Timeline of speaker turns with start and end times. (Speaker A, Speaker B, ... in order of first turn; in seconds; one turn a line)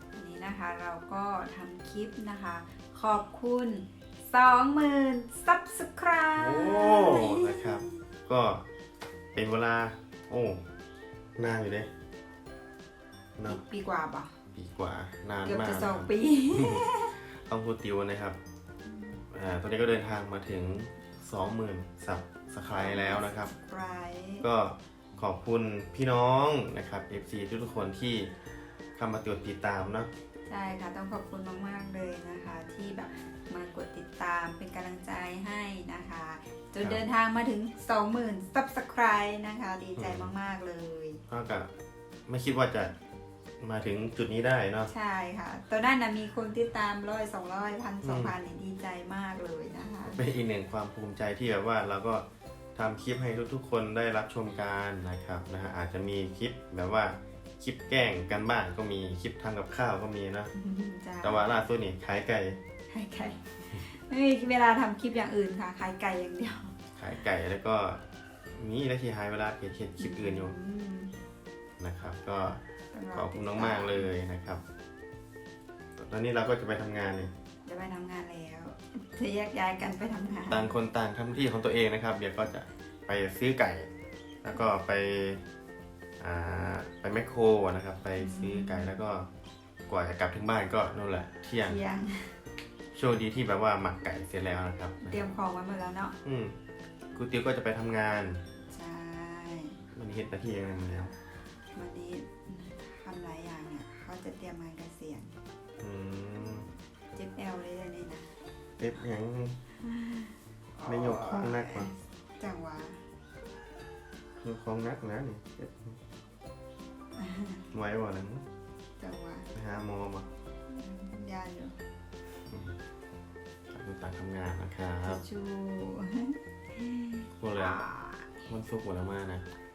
Speaker A: 0.1-8.0
Speaker B: 6.4-8.7
Speaker B: 9.3-10.6
Speaker B: 11.4-11.9
Speaker A: 13.4-14.3
Speaker B: 14.5-18.4
Speaker A: 15.4-17.2
Speaker A: 18.8-19.2
Speaker B: 19.3-23.5
Speaker A: 22.7-24.5
Speaker B: 24.4-28.3
Speaker B: 28.9-30.1
Speaker A: 30.5-41.2
Speaker B: 40.0-40.3
Speaker B: 41.3-41.7
Speaker B: 42.3-42.9
Speaker B: 43.6-44.9
Speaker A: 44.9-50.2
Speaker B: 48.0-48.3
Speaker B: 50.0-60.5
Speaker A: 60.5-61.5
Speaker B: 61.2-62.6
Speaker A: 62.9-66.7
Speaker B: 67.0-68.0
Speaker B: 68.5-70.5
Speaker A: 70.0-71.1
Speaker B: 71.8-72.6
Speaker A: 72.9-74.1
Speaker B: 73.1-74.6
Speaker B: 76.0-77.3
Speaker A: 77.7-80.7
Speaker B: 80.5-83.9
Speaker B: 84.4-85.4
Speaker B: 86.2-89.3
Speaker A: 88.2-89.0
Speaker B: 89.9-91.8
Speaker A: 91.6-92.4
Speaker B: 92.9-95.3
Speaker A: 95.0-96.1
Speaker B: 96.2-96.5
Speaker B: 97.1-98.4
Speaker A: 98.7-99.8
Speaker B: 99.9-101.1
Speaker A: 101.7-105.4
Speaker B: 105.8-106.7
Speaker A: 107.1-108.3
Speaker B: 108.8-109.6
Speaker A: 109.8-113.0
Speaker B: 110.8-111.9
Speaker B: 114.4-116.0
Speaker A: 117.2-117.7
Speaker B: 117.7-118.4
Speaker A: 119.0-119.5
Speaker B: 119.5-120.3
Speaker A: 120.7-121.8
Speaker B: 123.7-125.2
Speaker A: 125.0-128.3
Speaker B: 127.4-127.8
Speaker B: 128.4-129.4